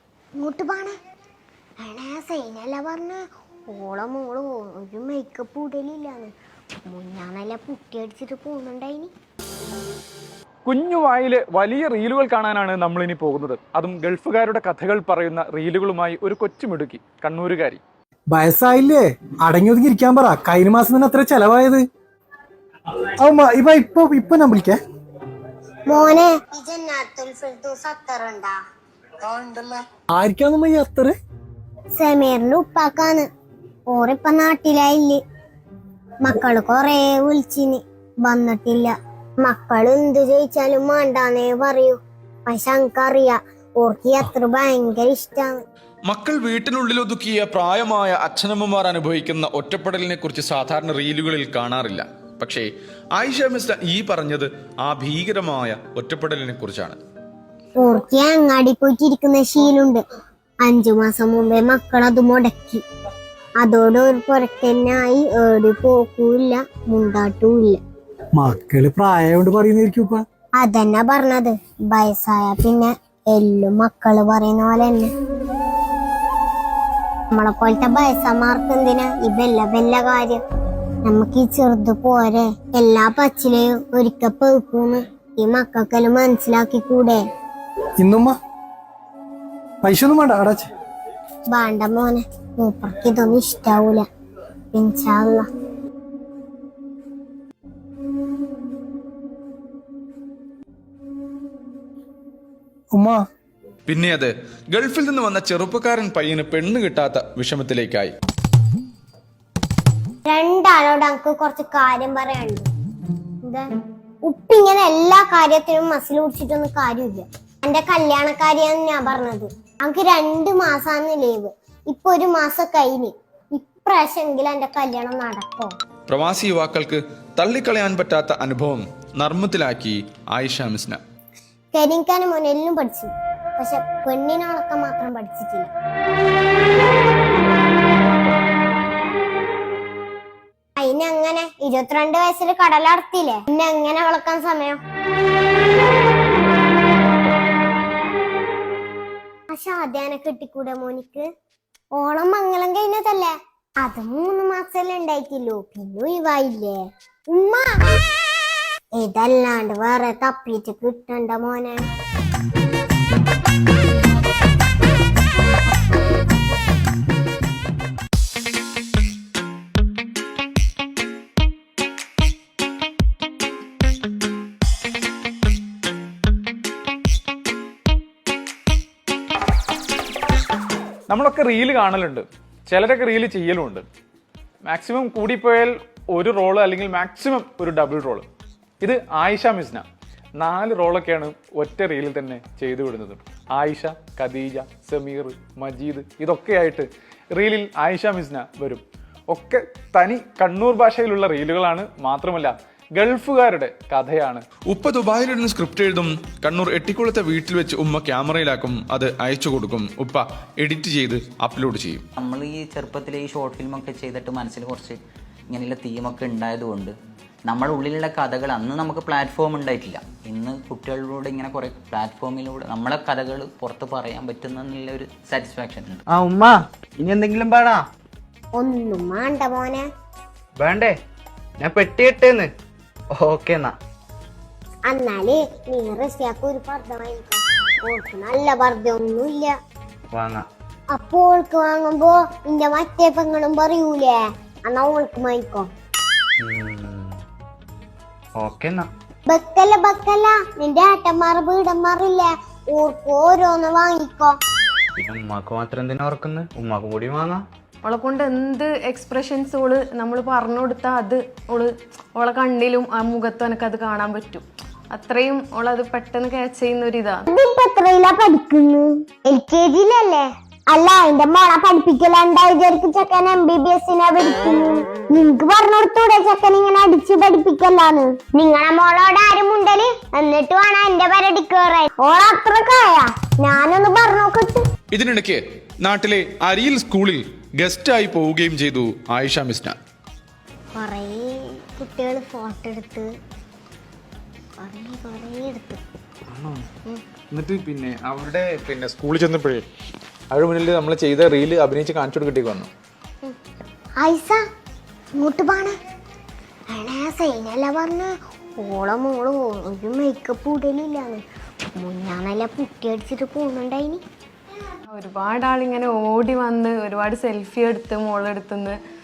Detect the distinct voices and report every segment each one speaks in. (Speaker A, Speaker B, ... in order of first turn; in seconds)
Speaker A: 0.4-0.9, 1.8-6.3, 6.9-9.1, 25.9-28.6, 31.9-33.2, 33.9-35.2, 36.2-45.6, 57.8-60.0, 60.6-62.8, 63.6-67.8, 70.6-75.1, 77.3-80.4, 81.0-87.2, 91.5-94.0, 94.7-95.5, 110.2-112.7, 114.2-125.7, 131.7-135.7, 140.8-144.8, 149.5-151.2, 151.9-156.8, 157.3-158.0, 159.0-161.8, 228.6-229.8, 234.9-239.5, 240.9-245.7, 249.3-254.3, 267.3-284.6, 290.8-293.1, 294.6-295.8, 304.0-304.4, 305.2-305.7, 306.7-311.2, 311.8-314.0
Speaker B: 10.6-17.8, 181.1-183.8, 184.6-188.2, 188.8-189.8, 190.4-204.4, 296.3-296.6, 297.3-299.6, 300.3-302.7
Speaker C: 18.3-21.8, 23.2-24.8, 29.2-31.1, 68.3-70.2, 88.0-88.3, 89.8-90.7, 102.9-103.2
Speaker D: 46.1-57.0, 103.9-108.1, 126.1-131.0, 204.7-212.0, 284.9-289.8
Speaker E: 212.2-216.9, 217.4-226.0
Speaker F: 226.1-227.8, 230.6-231.0, 231.6-232.5, 233.1-233.7, 240.1-240.5, 246.4-247.2, 248.4-248.9, 255.0-257.4
Speaker G: 257.8-267.2, 314.9-318.8